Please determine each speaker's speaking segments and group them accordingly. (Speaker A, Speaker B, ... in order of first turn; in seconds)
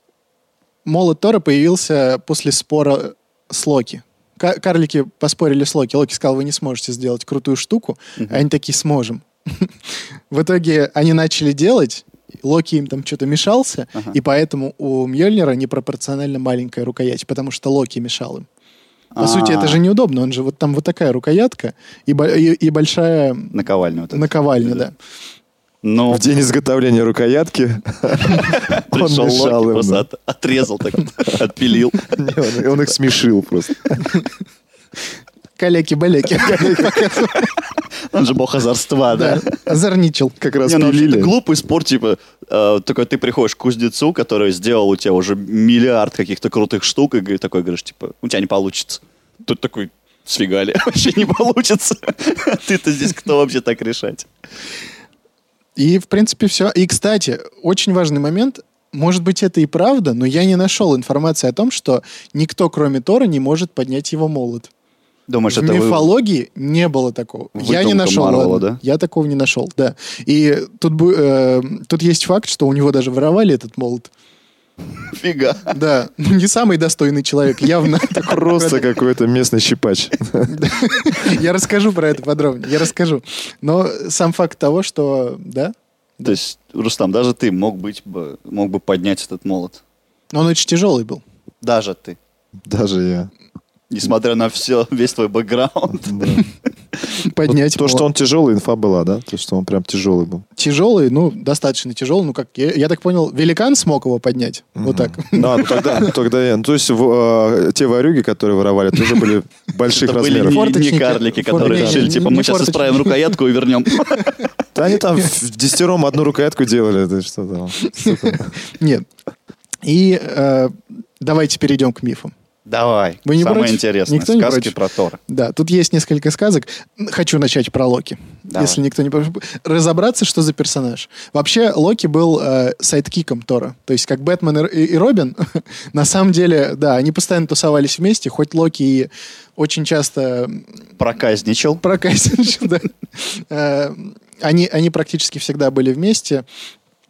Speaker A: 0.8-9.7, 10.3-18.5, 19.2-23.6, 24.1-24.9, 35.6-37.5, 39.1-40.4, 55.8-64.7, 65.5-74.1, 75.7-78.9, 80.5-86.4, 90.3-91.2, 97.1-98.1, 100.6-106.2, 110.4-113.3, 117.8-119.1, 119.8-122.3, 123.2-124.7, 125.3-140.7, 141.8-146.4
Speaker B: 8.2-8.4, 19.1-19.8, 23.5-24.8, 25.8-26.2, 28.3-32.1, 38.1-39.6, 40.6-54.3, 65.3-66.1, 67.6-68.8, 75.1-75.8, 86.2-89.8, 91.6-92.2, 93.9-96.4, 109.9-114.5, 122.7-125.2, 128.5-128.8, 141.0-141.8
Speaker C: 26.1-30.1, 32.0-33.9, 36.5-36.9, 40.4-41.3, 78.2-80.6, 92.7-93.3, 96.0-96.4, 97.5-100.5, 104.8-110.7, 111.5-112.2, 114.7-118.5